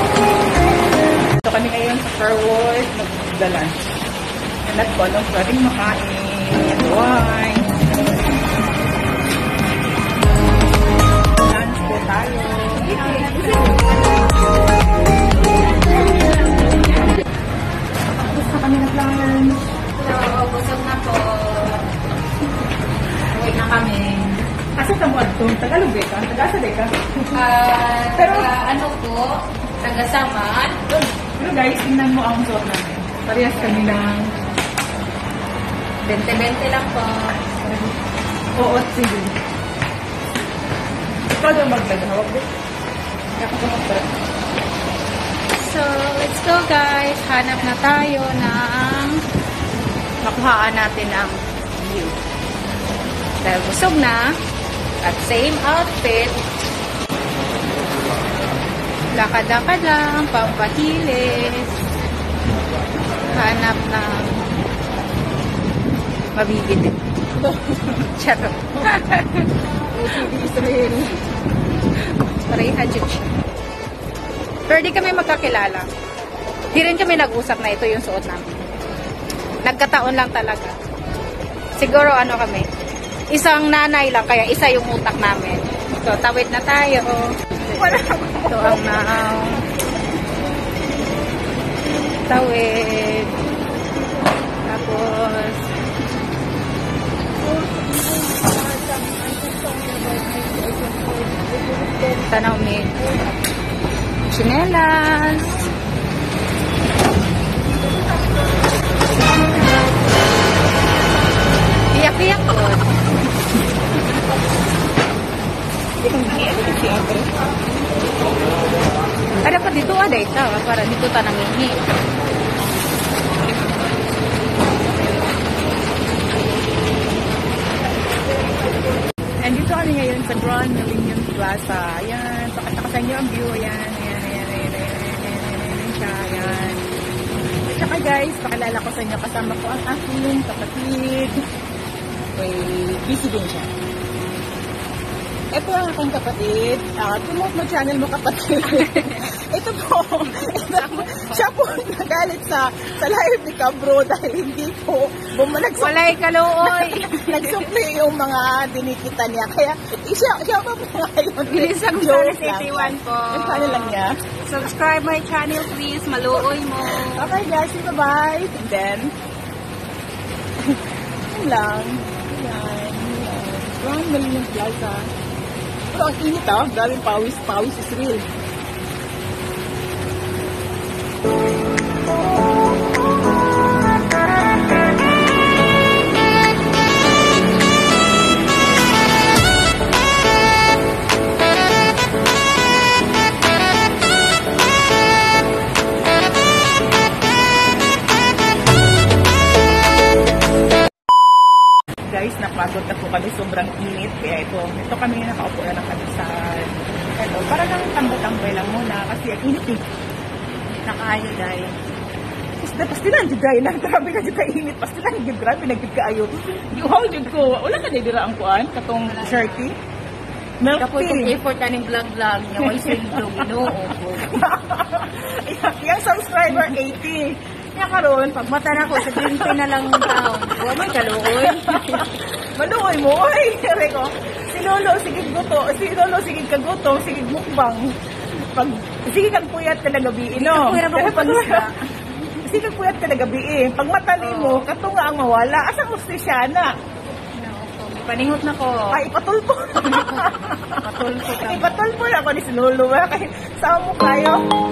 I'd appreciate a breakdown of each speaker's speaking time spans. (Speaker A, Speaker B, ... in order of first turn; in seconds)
Speaker A: 1.4-3.9, 4.7-7.7, 11.4-13.8, 18.1-19.7, 24.8-27.4, 28.1-28.5, 30.9-34.3, 38.6-39.3, 41.3-42.5, 43.4-44.2, 67.5-68.0, 70.0-71.0, 87.7-89.0, 97.5-102.3, 116.0-117.3, 129.4-136.8, 137.7-141.4, 142.3-143.7, 145.5-164.2, 166.9-169.1, 171.3-175.1, 175.9-178.3, 202.1-209.8, 212.6-219.8, 220.6-221.3, 222.6-241.7, 242.4-246.7, 248.9-254.4
Speaker B: 12.8-14.0, 16.2-16.8, 19.9-21.9, 23.3-24.4, 27.3-30.8, 36.0-37.7, 45.6-49.2, 50.2-52.2, 53.4-54.3, 55.0-56.4, 59.1-61.8, 63.3-64.5, 66.3-67.0, 68.1-71.1, 72.2-73.4, 74.7-75.9, 76.7-78.7, 79.6-80.8, 81.8-82.7, 83.3-89.7, 92.3-93.5, 94.6-95.7, 102.3-103.1, 104.3-105.7, 111.9-112.9, 119.4-121.8, 148.7-149.2, 150.3-151.5, 155.8-157.7, 161.5-167.3, 210.8-211.8, 219.1-219.7, 220.8-224.4, 228.4-232.1, 240.3-241.8, 244.2-244.7, 247.3-249.0, 249.9-251.8